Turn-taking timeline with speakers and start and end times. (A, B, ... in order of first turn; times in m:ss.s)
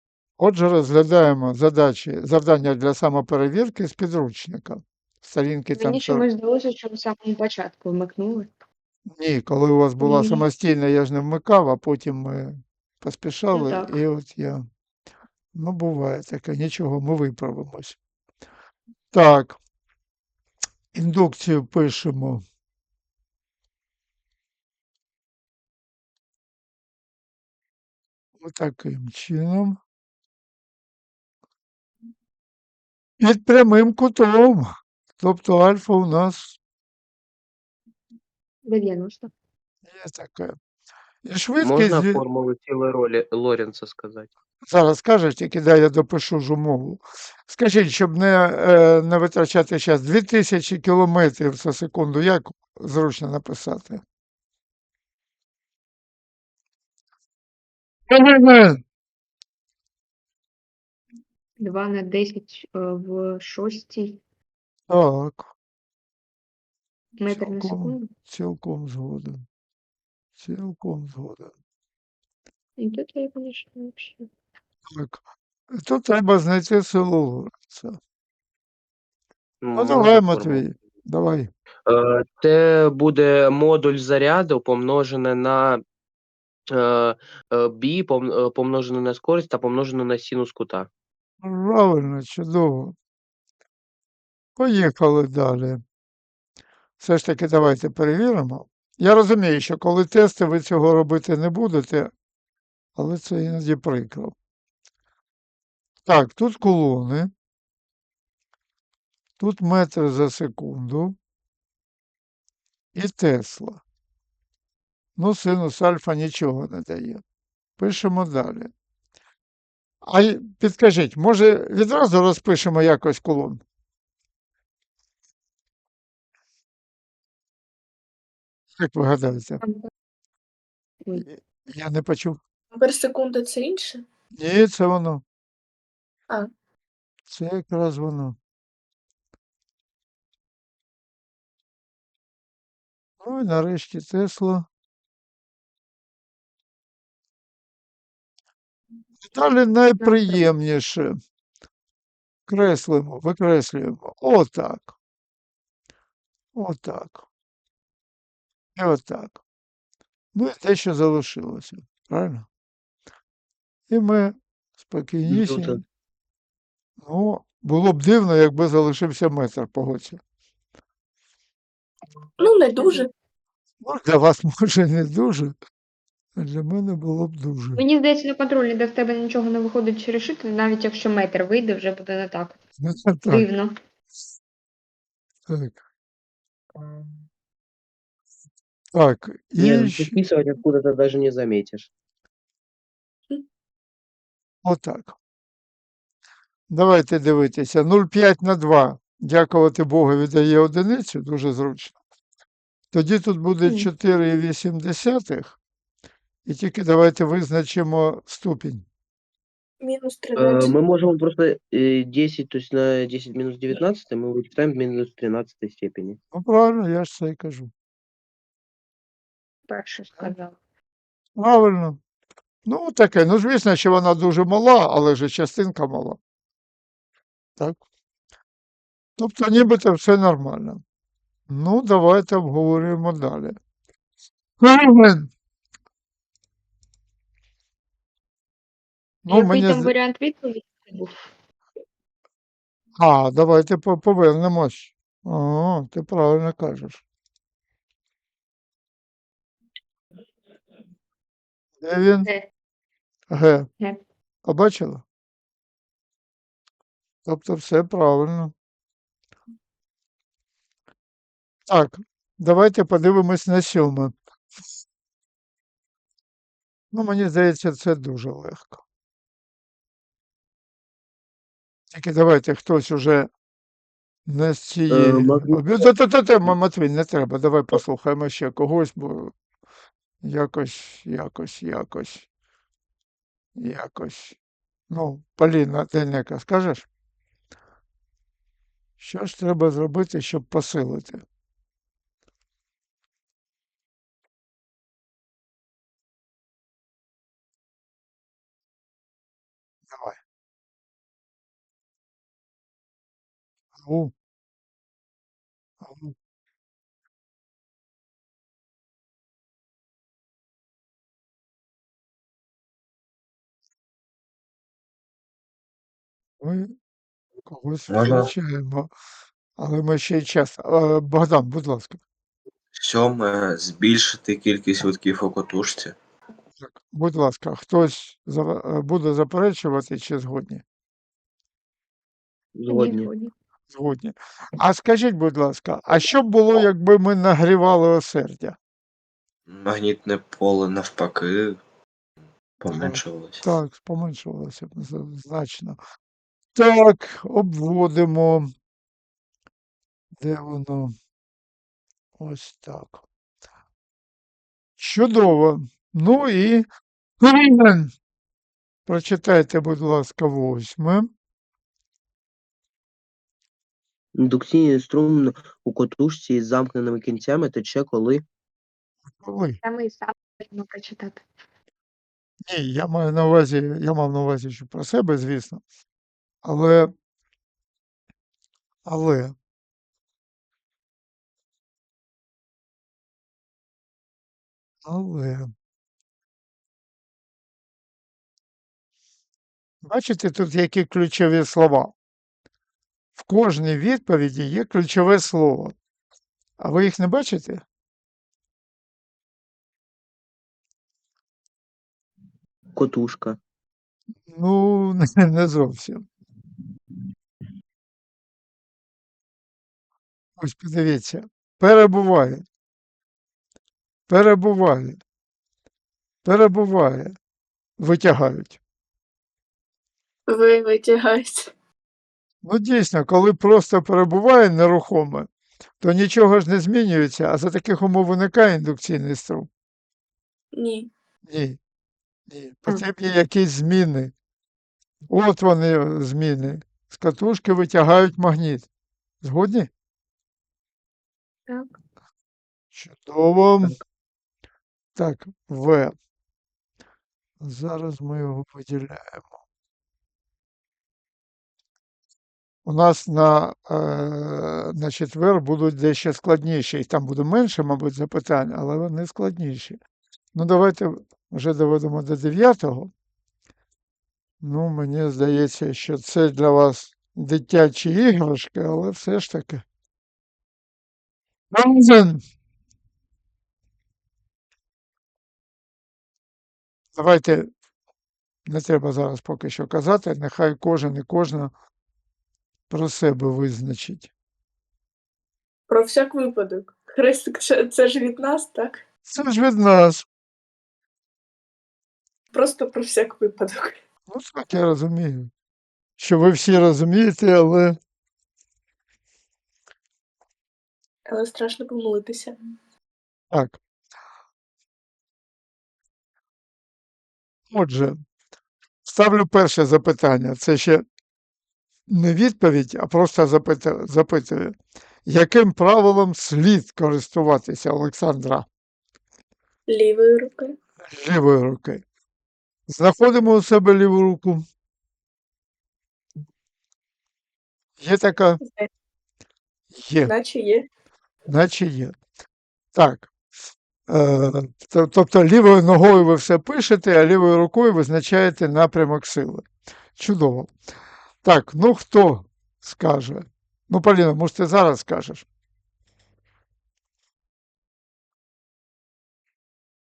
0:00.4-0:06.3 A
0:05.8-0:08.5 B
0:09.1-0:14.7 A
0:10.0-0:10.4 B
0:13.5-0:14.0 B
0:15.6-0:18.0 A
0:19.1-0:19.6 A
0:20.9-0:22.4 A
0:28.4-0:29.8 A
0:33.2-0:36.6 A
0:38.6-0:39.3 B
0:39.8-0:40.6 A
0:41.2-0:42.2 A
0:41.6-0:44.3 C
0:44.7-0:54.0 A
0:58.1-0:58.8 A
1:01.6-1:04.2 B
1:04.9-1:05.5 A
1:07.2-1:08.1 B
1:07.3-1:09.4 A
1:10.4-1:11.5 A
1:12.8-1:14.3 B
1:14.9-1:18.0 A
1:19.6-1:20.7 C
1:19.8-1:21.5 A
1:21.9-1:25.8 C
1:26.7-1:30.9 C
1:31.4-1:33.0 A
1:34.6-1:35.8 A
1:37.0-1:42.1 A
1:43.0-1:44.4 A
1:46.1-1:47.3 A
1:49.4-1:51.2 A
1:53.0-1:53.8 A
1:55.2-1:57.2 A
1:57.8-1:58.7 A
2:00.0-2:03.6 A
2:08.8-2:09.6 A
2:09.6-2:09.9 B
2:11.2-2:12.4 A
2:12.7-2:14.0 D
2:14.4-2:15.2 A
2:17.3-2:18.4 A
2:23.2-2:24.7 A
2:29.2-2:31.2 A
2:30.0-2:30.4 B
2:32.5-2:34.9 A
2:36.6-2:37.2 A
2:38.8-2:39.4 A
2:40.3-2:42.5 A
2:43.9-2:45.8 A
2:45.3-2:45.8 C
2:47.0-2:50.2 A
2:52.4-2:53.1 D
2:53.8-2:55.5 A
2:56.4-2:57.8 A
2:57.8-3:02.6 B
3:02.8-3:03.5 A
3:03.3-3:03.7 B
3:05.5-3:05.8 A
3:09.0-3:10.1 A
3:09.6-3:11.9 C
3:14.6-3:15.2 A
3:16.7-3:22.0 A
3:22.9-3:25.6 A
3:26.5-3:28.8 A
3:29.8-3:30.8 D
3:30.4-3:36.2 C
3:36.3-3:37.7 A
3:39.7-3:40.6 B
3:41.4-3:42.0 A
3:42.7-3:46.2 A
3:49.2-3:50.8 A
3:51.5-3:53.6 A
3:54.6-3:55.3 A
3:59.2-3:59.9 A
3:59.3-4:01.3 B
4:03.0-4:07.0 A
4:11.8-4:12.3 A
4:13.3-4:13.7 A
4:14.5-4:15.0 A
4:17.3-4:18.5 A
4:21.7-4:24.1 A
4:26.9-4:28.8 A
4:31.9-4:33.3 A
4:34.3-4:39.3 A
4:34.9-4:35.9 C
4:40.2-4:42.3 A
4:43.6-4:44.4 A
4:44.9-4:46.9 A
4:49.0-4:51.2 A
4:59.9-5:00.2 A
5:03.8-5:04.1 A
5:05.8-5:06.2 A
5:16.4-5:16.8 A
5:17.5-5:18.9 A
5:17.9-5:18.3 E
5:19.6-5:22.0 A
5:22.8-5:26.0 E
5:26.6-5:30.6 A
5:32.6-5:33.1 C
5:32.7-5:33.3 B
5:33.7-5:38.6 A
5:39.5-5:41.6 E
5:42.6-5:43.5 E
5:42.7-5:43.0 C
5:43.4-5:45.8 A
5:46.6-5:48.5 A
5:50.2-5:50.9 A
5:52.2-5:53.0 A
5:54.8-5:56.7 A
5:57.2-5:57.9 A
5:58.9-6:01.1 A
6:04.2-6:08.2 C
6:09.2-6:09.6 A
6:09.6-6:11.2 B
6:12.5-6:15.6 A
6:16.4-6:16.9 A
6:18.9-6:19.3 A
6:24.8-6:25.5 A
6:29.8-6:31.9 A
6:33.2-6:35.8 A
6:36.6-6:37.6 A
6:42.7-6:43.4 C
6:44.3-6:46.1 A
6:50.4-6:52.4 A
6:54.1-6:55.0 A
6:56.2-6:57.2 A
6:57.8-6:58.6 A
7:00.3-7:01.5 D
7:02.4-7:05.3 A
7:05.8-7:09.5 A
7:10.6-7:10.9 D
7:11.3-7:11.6 A
7:12.3-7:14.1 A
7:15.1-7:18.7 A
7:19.2-7:19.7 A
7:22.7-7:23.8 A
7:25.0-7:25.9 A
7:27.4-7:29.3 A
7:32.6-7:39.8 A
7:40.4-7:42.9 A
7:44.4-7:49.6 A
7:51.5-7:52.2 A
7:57.0-7:57.5 A
7:58.5-8:01.5 A
8:02.7-8:04.1 A
8:05.7-8:08.8 D
8:09.1-8:10.1 A
8:12.3-8:13.8 D
8:14.1-8:15.3 A
8:16.0-8:17.8 A
8:21.1-8:22.4 D
8:23.3-8:23.6 A
8:27.5-8:28.0 A
8:28.8-8:30.8 A
8:31.9-8:34.6 A
8:35.1-8:38.5 A
8:39.7-8:40.6 D
8:40.9-8:41.8 A
8:42.7-8:44.4 A
8:47.8-8:48.4 A
8:48.4-8:48.7 D
8:49.8-8:50.1 A
8:50.0-8:50.7 D
8:51.3-8:51.9 A
8:52.8-8:53.1 A
8:53.9-8:59.4 A
9:00.0-9:00.5 A
9:01.2-9:05.3 A